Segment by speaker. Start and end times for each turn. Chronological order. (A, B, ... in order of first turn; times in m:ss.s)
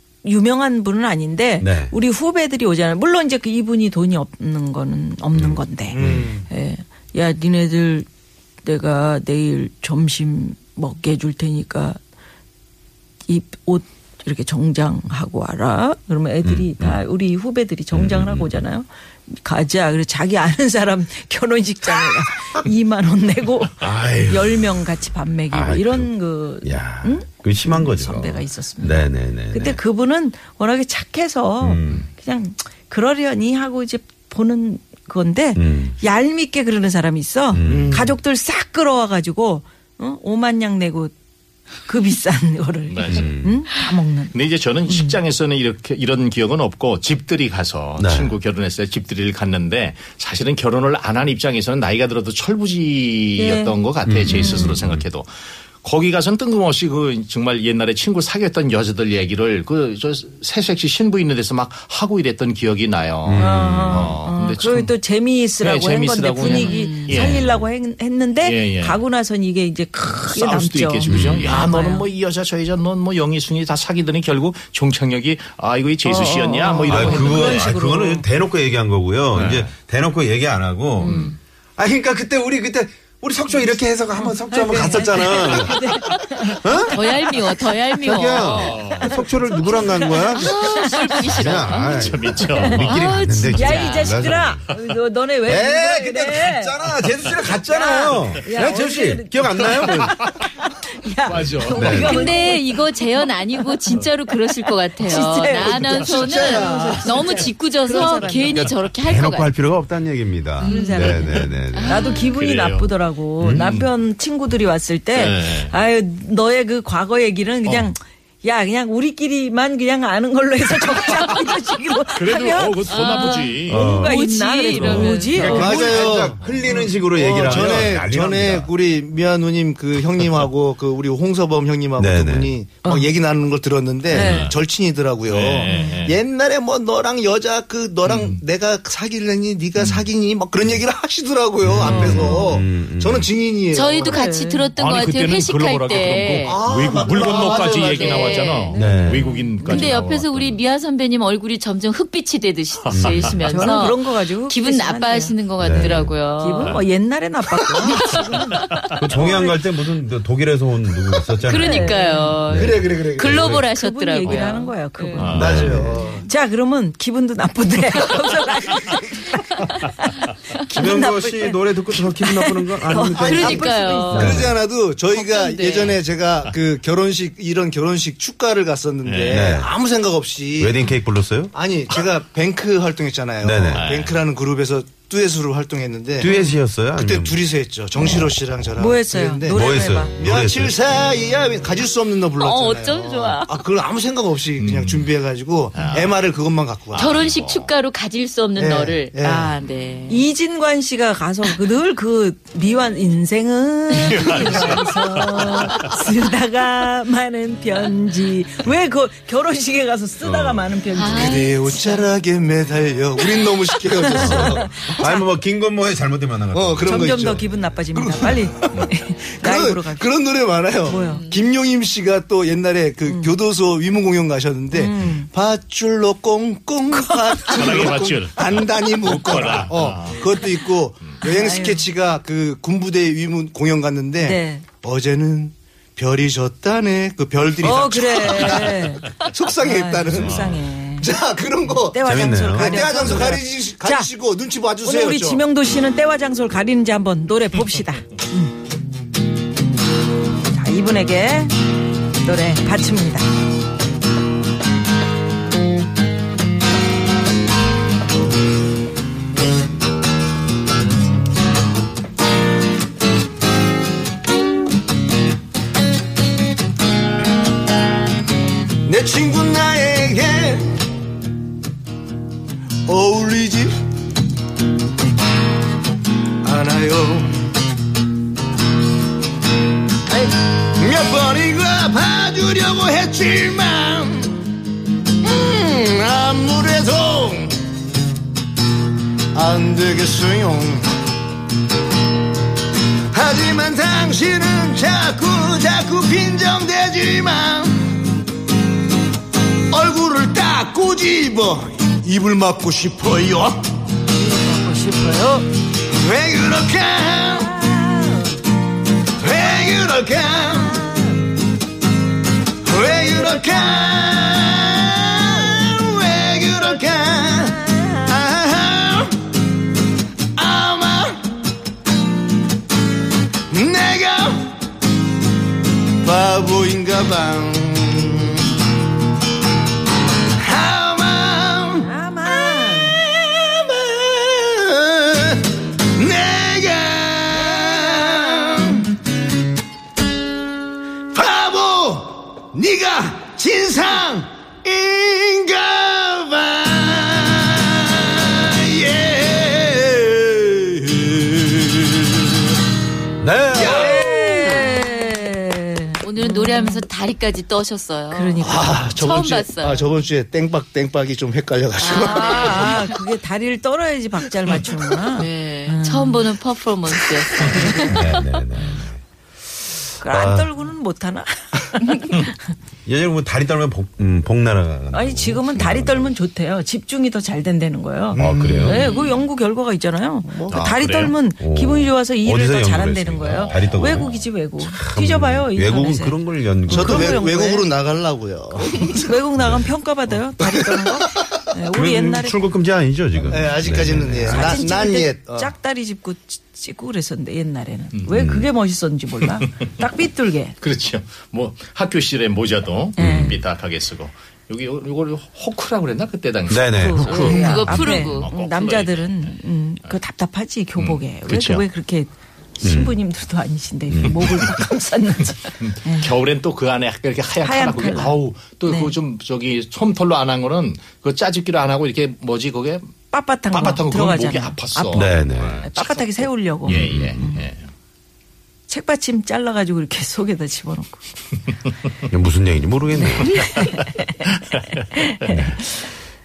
0:00.2-0:08.1 A
0:01.6-0:01.9 B
0:05.3-0:06.3 B
0:05.9-0:06.5 C
0:08.6-0:12.0 A
0:13.3-0:41.1 A
0:16.4-0:17.0 B
0:17.9-0:18.6 B
0:23.8-0:24.4 D
0:25.5-0:26.1 B
0:26.6-0:29.8 B
0:31.6-0:32.1 B
0:35.6-0:36.0 B
0:37.5-0:38.1 B
0:37.6-0:38.1 C
0:41.8-0:44.3 A
0:42.9-0:43.3 D
0:43.1-0:43.6 B
0:44.3-0:55.3 D
0:44.9-0:45.2 A
0:48.0-0:48.4 B
0:53.4-0:53.7 A
0:54.0-0:55.0 B
0:54.4-0:54.7 E
0:55.8-1:04.9 D
1:03.2-1:04.2 B
1:03.4-1:12.0 A
1:05.6-1:07.4 D
1:06.4-1:07.1 E
1:07.1-1:07.7 B
1:08.4-1:09.0 D
1:10.3-1:17.7 D
1:11.0-1:11.5 B
1:16.0-1:18.2 A
1:16.9-1:26.0 B
1:19.3-1:19.7 D
1:21.0-1:21.3 D
1:24.2-1:27.1 A
1:26.6-1:27.1 B
1:26.9-1:28.8 E
1:28.0-1:30.6 B
1:28.4-1:29.2 D
1:29.0-1:31.3 A
1:30.4-1:32.1 E
1:31.2-1:34.7 B
1:31.4-1:33.1 D
1:32.4-1:32.8 A
1:32.8-1:34.2 E
1:33.5-1:42.9 A
1:35.4-1:40.2 B
1:41.3-1:42.2 D
1:41.8-1:42.2 B
1:41.8-1:49.5 E
1:43.6-1:48.7 A
1:45.6-1:47.4 C
1:49.0-1:52.1 B
1:50.6-1:52.2 E
1:50.6-2:05.8 A
1:52.1-1:52.9 D
1:53.4-1:53.8 B
1:53.6-1:53.8 D
1:55.1-1:55.7 D
2:02.1-2:04.0 D
2:02.9-2:05.9 E
2:03.7-2:04.2 B
2:04.7-2:05.6 D
2:05.3-2:08.7 B
2:05.4-2:24.2 C
2:06.2-2:06.6 D
2:07.4-2:07.9 D
2:12.0-2:12.5 B
2:14.1-2:14.5 A
2:14.1-2:14.6 D
2:15.3-2:16.2 D
2:15.7-2:16.0 A
2:18.0-2:18.4 D
2:21.6-2:23.3 B
2:21.9-2:22.4 A
2:23.7-2:26.6 E
2:24.0-2:24.7 A
2:24.8-2:30.6 D
2:26.4-2:28.4 C
2:27.3-2:28.8 E
2:28.7-2:30.0 A
2:28.7-2:29.3 B
2:29.6-2:36.8 E
2:32.8-2:33.4 D
2:32.9-2:33.4 B
2:33.4-2:38.6 A
2:35.6-2:36.1 B
2:37.9-2:38.9 E
2:38.1-2:38.4 C
2:39.0-2:41.9 B
2:39.1-2:39.5 A
2:41.4-2:45.4 E
2:41.5-2:42.4 A
2:42.5-2:43.6 B
2:42.5-2:43.5 C
2:43.6-2:54.5 A
2:45.2-2:45.7 D
2:45.3-2:46.0 B
2:45.3-2:46.2 C
2:50.7-2:54.5 B
2:53.2-2:54.4 E
2:54.1-3:00.8 C
2:55.1-2:56.0 E
2:59.0-2:59.5 D
2:59.3-2:59.7 B
3:00.6-3:01.5 B
3:01.5-3:06.3 C
3:03.4-3:04.0 B
3:03.7-3:04.2 D
3:06.2-3:07.4 B
3:06.9-3:17.1 C
3:07.9-3:08.8 B
3:08.8-3:10.1 A
3:09.5-3:10.8 B
3:12.4-3:13.6 E
3:14.6-3:15.1 D
3:15.7-3:16.1 D
3:16.9-3:17.7 D
3:16.9-3:20.2 E
3:18.6-3:19.5 C
3:20.1-3:32.0 A
3:24.0-3:25.8 D
3:30.2-3:30.7 B
3:30.9-3:32.0 E
3:31.1-3:35.0 C
3:34.0-3:35.2 A
3:34.1-3:37.3 B
3:36.5-3:38.9 C
3:36.8-3:40.1 A
3:39.4-4:05.4 C
3:40.8-3:41.2 A
3:41.0-3:41.4 E
3:43.0-3:43.3 A
3:44.7-3:45.3 A
3:46.9-3:47.8 A
3:47.5-3:50.3 D
3:51.2-3:51.9 A
3:54.2-3:54.6 A
3:57.6-4:01.1 A
4:01.7-4:04.1 A
4:02.0-4:03.1 B
4:04.8-4:08.5 A
4:10.5-4:11.5 A
4:12.2-4:13.2 A
4:28.8-4:30.7 C
4:32.9-4:33.7 C
4:36.4-4:37.4 C
4:40.6-4:44.4 C
4:45.2-4:47.6 C
4:49.3-4:50.9 C
4:53.1-4:58.0 C
4:59.7-5:03.6 C
5:04.2-5:05.4 A
5:05.9-5:07.6 C
5:07.5-5:08.3 A
5:09.2-5:10.8 C
5:10.7-5:11.0 A
5:12.6-5:19.2 C
5:20.4-5:21.2 C
5:23.5-5:24.5 C
5:26.0-5:28.5 C
5:30.3-5:31.9 C
5:31.8-5:33.0 A
5:32.8-5:38.9 C
5:37.5-5:38.5 A
5:41.1-5:52.4 C
5:53.2-5:54.0 B
5:53.5-5:54.1 C
5:53.6-5:56.8 A
5:54.0-5:54.8 E
5:56.0-5:59.9 E
5:58.1-5:58.9 A
5:58.4-6:02.8 C
6:01.8-6:02.8 E
6:01.9-6:06.2 A
6:05.1-6:08.1 E
6:07.4-6:07.9 A
6:07.8-6:09.0 B
6:10.0-6:12.4 A
6:10.0-6:10.5 B
6:12.8-6:16.1 B
6:14.9-6:27.7 A
6:18.2-6:18.8 B
6:18.2-6:19.0 C
6:20.2-6:20.7 C
6:20.5-6:21.1 D
6:21.4-6:27.2 B
6:23.3-6:24.1 D
6:26.7-6:29.0 C
6:28.9-6:32.4 A
6:29.4-6:29.7 B
6:30.4-6:31.2 C
6:31.7-6:34.6 B
6:33.3-6:35.5 C
6:34.3-6:40.6 A
6:38.1-6:38.5 B
6:40.6-6:49.3 D
6:43.0-6:43.4 A
6:43.0-6:43.4 B
6:46.5-6:48.1 B
6:46.7-6:56.1 A
6:47.1-6:48.3 E
6:50.8-6:51.6 D
6:52.6-6:53.0 B
6:53.9-6:54.5 B
6:55.6-7:02.9 D
6:57.4-6:58.2 A
6:58.7-6:58.9 A
7:03.1-7:07.4 A
7:03.5-7:07.6 D
7:04.9-7:05.6 B
7:06.7-7:07.2 B
7:08.7-7:11.0 A
7:12.1-7:13.5 B
7:12.9-7:15.9 A